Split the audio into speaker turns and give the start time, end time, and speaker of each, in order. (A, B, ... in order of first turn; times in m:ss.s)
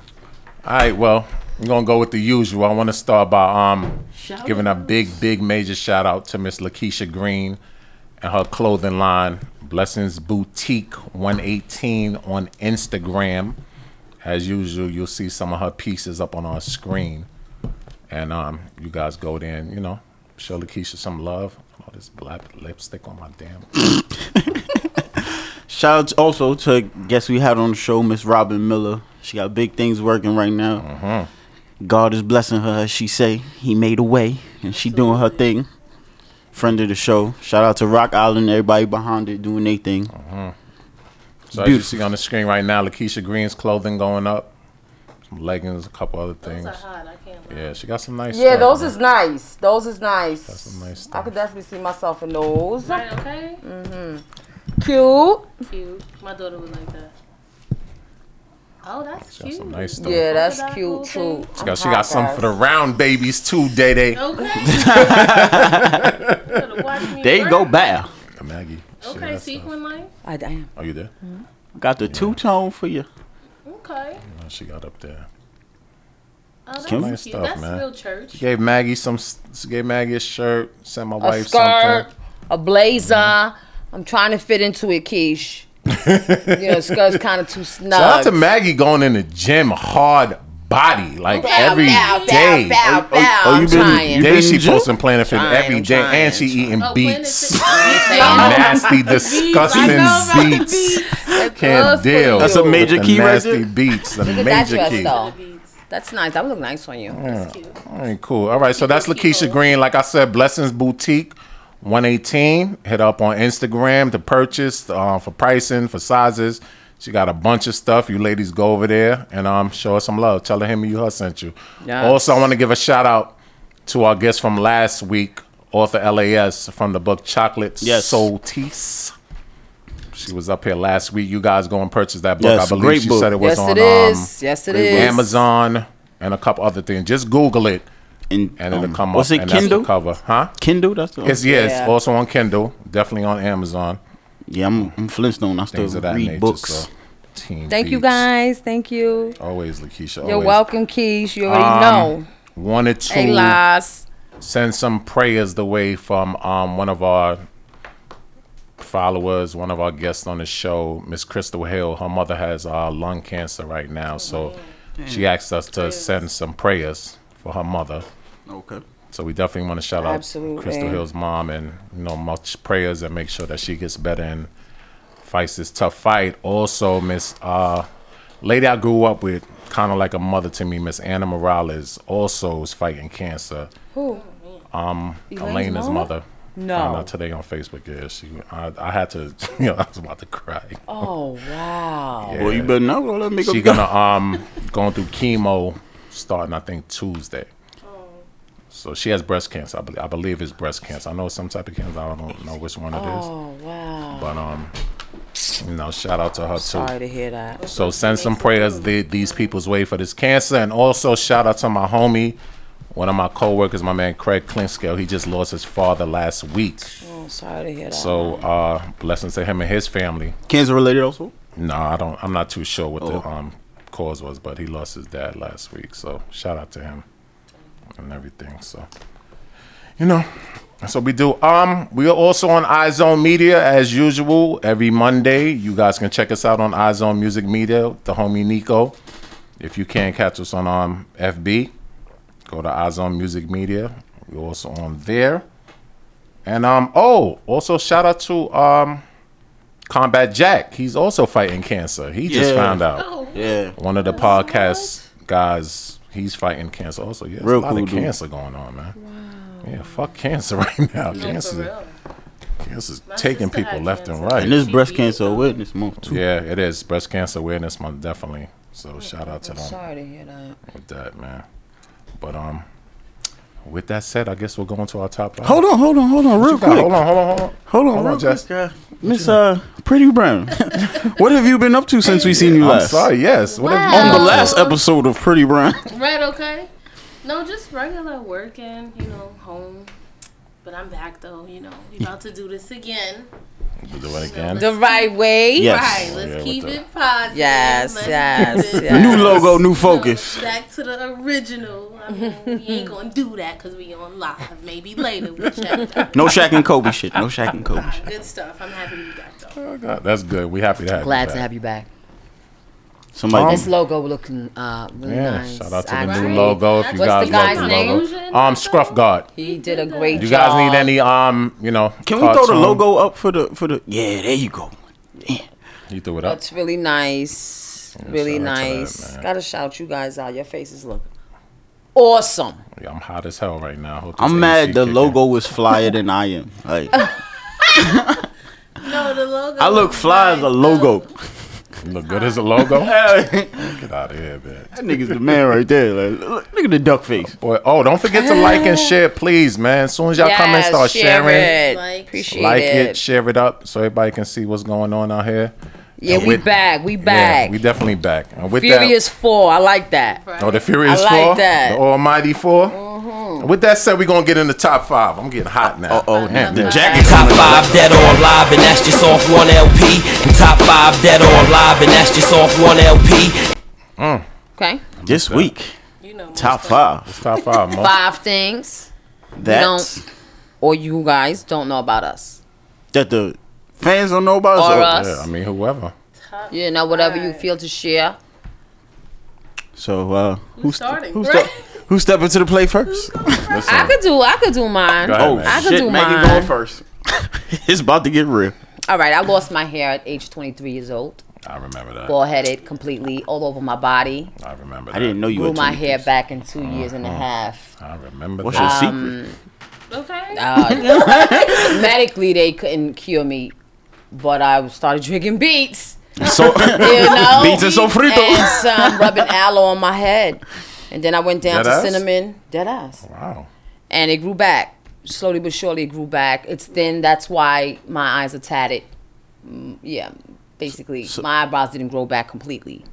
0:00.6-0:07.6 A
0:04.2-0:05.2 B
0:08.2-0:13.6 A
0:14.2-0:17.3 A
0:18.1-0:23.7 A
0:25.7-0:30.8 C
0:30.8-0:31.3 A
0:31.8-0:35.7 C
0:34.7-0:35.5 B
0:36.5-0:40.1 C
0:40.1-0:40.6 A
0:41.5-0:41.9 C
0:41.5-0:44.5 A
0:45.3-0:46.8 A
0:46.4-0:47.8 B
0:47.5-0:49.0 A
0:48.3-0:53.0 D
0:50.5-0:51.3 A
0:52.8-0:53.6 B
0:53.6-0:54.2 D
0:54.8-0:55.6 D
0:55.6-0:57.1 B
0:58.8-1:01.5 B
0:59.4-1:00.3 A
1:00.0-1:02.5 D
1:01.6-1:06.6 A
1:04.2-1:05.2 B
1:04.6-1:06.2 C
1:06.4-1:08.0 B
1:07.2-1:08.1 C
1:08.4-1:09.7 A
1:09.0-1:10.1 B
1:10.2-1:10.7 D
1:10.8-1:11.1 A
1:11.8-1:13.1 C
1:12.0-1:12.4 A
1:13.6-1:14.2 B
1:14.3-1:15.3 A
1:16.7-1:18.4 B
1:16.8-1:22.1 A
1:16.8-1:17.1 C
1:21.2-1:25.7 D
1:23.0-1:23.3 A
1:25.9-1:27.2 A
1:26.5-1:28.4 D
1:27.9-1:32.8 A
1:31.3-1:32.6 B
1:31.4-1:34.3 D
1:32.8-1:34.9 C
1:33.6-1:45.1 A
1:35.3-1:36.7 D
1:36.8-1:41.1 B
1:37.7-1:39.0 D
1:39.8-1:43.0 D
1:42.4-1:43.7 C
1:44.2-1:45.4 D
1:44.5-1:45.8 B
1:45.9-1:47.2 D
1:47.1-2:09.1 A
1:47.2-1:47.8 B
1:48.8-1:49.7 B
2:01.8-2:02.5 D
2:07.8-2:08.3 C
2:10.1-2:14.3 A
2:12.4-2:13.3 C
2:13.4-2:15.2 D
2:14.7-2:15.2 C
2:14.9-2:17.9 A
2:18.3-2:19.9 C
2:18.6-2:20.6 A
2:20.6-2:21.4 C
2:21.2-2:24.0 A
2:21.4-2:21.9 D
2:24.5-2:26.9 C
2:25.7-2:28.3 A
2:27.7-2:29.4 D
2:29.1-2:29.4 B
2:29.4-2:30.6 A
2:30.2-2:32.3 D
2:31.4-2:33.6 A
2:33.1-2:34.1 D
2:34.4-2:37.4 A
2:38.8-2:48.1 A
2:44.2-2:44.7 B
2:45.0-2:45.3 C
2:45.8-2:46.2 B
2:48.5-2:48.8 C
2:49.1-2:54.5 A
2:50.0-2:51.0 D
2:55.2-2:57.9 A
2:58.4-3:03.7 A
3:03.9-3:04.2 D
3:04.1-3:04.6 B
3:04.7-3:11.1 A
3:05.3-3:07.1 D
3:10.9-3:12.4 D
3:12.2-3:12.8 A
3:12.4-3:13.9 C
3:13.4-3:17.5 A
3:17.8-3:18.3 B
3:18.7-3:23.3 A
3:22.9-3:24.3 D
3:24.1-3:24.7 A
3:25.6-3:26.9 A
3:26.6-3:27.6 D
3:27.6-3:29.5 B
3:27.7-3:32.4 A
3:32.9-3:36.9 A
3:37.0-3:38.4 D
3:37.9-3:40.4 A
3:40.5-3:41.3 C
3:41.6-3:47.0 A
3:48.0-3:48.9 A
3:50.0-3:50.3 A
3:50.8-3:59.0 A
3:59.6-4:01.7 A
4:02.5-4:05.4 A
4:06.4-4:09.0 A
4:09.9-4:13.1 A
4:12.3-4:12.8 C
4:12.9-4:15.0 B
4:13.4-4:13.8 C
4:13.8-4:19.0 A
4:17.4-4:18.1 C
4:19.0-4:20.1 D
4:19.6-4:21.7 A
4:21.1-4:22.0 B
4:22.6-4:24.7 A
4:23.1-4:25.6 B
4:24.4-4:26.2 C
4:26.0-4:29.8 A
4:29.4-4:30.6 D
4:30.7-4:31.4 A
4:32.2-4:32.7 A
4:33.6-4:35.7 A
4:35.4-4:37.0 C
4:36.4-4:38.4 A
4:37.7-4:43.1 C
4:39.0-4:39.4 A
4:42.0-4:42.5 B
4:42.1-4:44.6 A
4:43.5-4:44.8 B
4:43.9-4:45.9 C
4:45.9-4:46.7 B
4:47.2-4:49.9 B
4:50.6-4:53.3 B
4:53.8-4:54.7 A
4:54.0-5:06.4 B
4:54.6-4:55.8 D
4:55.6-4:56.1 C
4:55.9-4:56.8 A
4:57.3-4:59.5 D
4:58.9-5:00.4 C
5:02.1-5:02.9 D
5:05.4-5:06.1 A
5:06.1-5:08.0 C
5:07.7-5:09.6 B
5:09.6-5:11.5 A
5:11.0-5:11.9 D
5:13.1-5:13.7 C
5:13.3-5:13.7 A
5:13.4-5:18.0 D
5:15.0-5:19.3 A
5:16.0-5:20.5 B
5:19.4-5:20.9 D
5:20.1-5:22.8 A
5:22.0-5:25.5 C
5:25.9-5:26.4 A
5:26.2-5:31.1 D
5:28.0-5:29.2 A
5:32.0-5:32.6 D
5:32.8-5:35.2 A
5:34.2-5:37.1 C
5:37.8-5:38.3 C
5:38.8-5:41.0 B
5:39.6-5:41.1 C
5:41.8-5:45.3 A
5:42.1-5:42.6 B
5:42.6-5:43.8 C
5:44.8-5:47.4 C
5:47.3-5:51.5 A
5:48.1-5:49.0 D
5:50.2-5:53.0 D
5:51.2-5:52.3 B
5:52.3-5:59.0 A
5:56.0-5:57.6 D
5:58.6-6:00.2 D
6:00.1-6:00.7 B
6:00.4-6:02.8 A
6:00.8-6:01.8 D
6:02.7-6:03.5 D
6:03.4-6:06.9 A
6:05.9-6:07.9 C
6:06.1-6:07.5 B
6:06.9-6:13.5 E
6:14.0-6:14.3 A
6:14.6-6:14.8 D
6:15.0-6:15.5 A
6:15.1-6:15.8 C
6:16.0-6:16.9 B
6:16.4-6:17.2 C
6:17.1-6:18.0 A
6:17.8-6:18.9 D
6:19.4-6:20.0 C
6:19.4-6:19.9 D
6:20.6-6:22.4 D
6:22.9-6:25.0 C
6:24.6-6:25.3 D
6:24.8-6:25.9 A
6:26.2-6:27.5 B
6:26.5-6:28.2 D
6:29.8-6:33.5 C
6:30.6-6:31.8 B
6:32.9-6:33.9 B
6:33.5-6:34.0 A
6:33.7-6:36.5 D
6:35.0-6:35.8 A
6:35.1-6:38.5 C
6:38.9-6:41.2 D
6:41.4-6:42.2 A
6:42.1-6:44.3 D
6:44.4-6:45.2 A
6:44.9-6:46.1 C
6:45.3-6:47.7 D
6:46.6-6:47.3 A
6:47.8-6:48.9 A
6:48.4-6:49.2 C
6:48.5-6:49.4 D
6:49.9-6:51.7 B
6:50.4-6:53.6 D
6:50.7-6:51.8 C
6:54.1-7:03.0 D
6:56.2-6:59.1 C
6:56.5-6:57.1 A
7:01.5-7:02.0 A
7:03.0-7:03.5 A
7:03.9-7:08.9 D
7:09.4-7:12.8 D